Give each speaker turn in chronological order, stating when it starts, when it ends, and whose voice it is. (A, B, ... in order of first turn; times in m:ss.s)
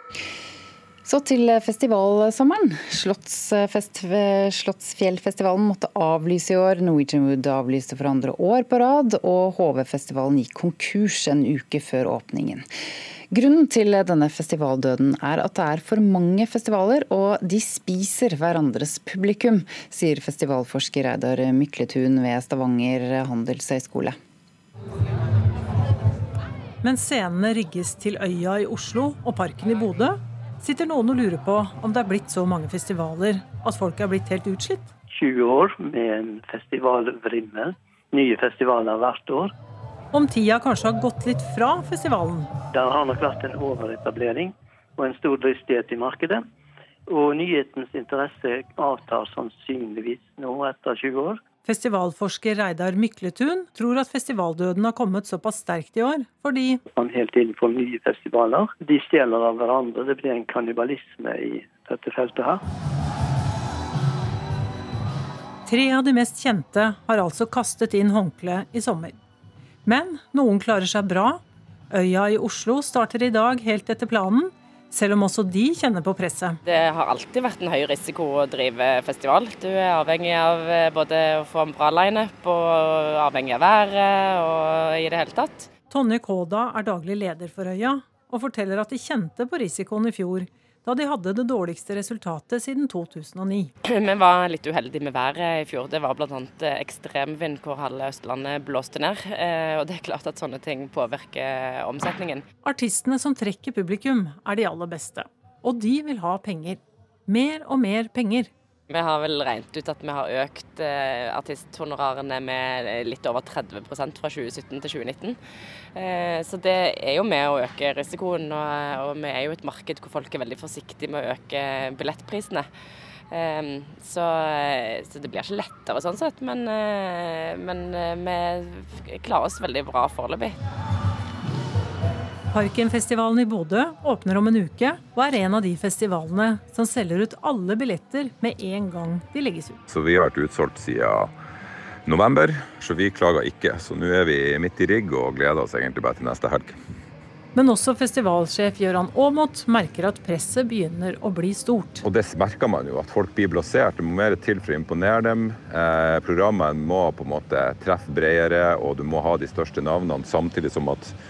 0:01.0-0:12.6 A
0:13.3-0:24.1 A
0:26.8-0:34.9 B
0:35.1-0:39.5 C
0:40.1-0:42.5 B
0:42.7-0:46.4 C
0:47.1-0:51.4 C
0:51.6-0:56.8 B
0:56.9-1:02.6 C
1:05.6-1:09.1 B
1:09.8-1:16.6 B
1:16.6-1:25.7 D
1:25.9-1:33.7 B
1:33.9-1:42.4 D
1:42.6-1:48.5 B
1:48.9-1:55.4 D
1:55.9-2:02.6 D
2:03.3-2:10.6 D
2:12.5-2:19.8 B
2:19.9-2:21.3 E
2:22.0-2:26.8 E
2:27.5-2:32.0 B
2:32.0-2:41.1 E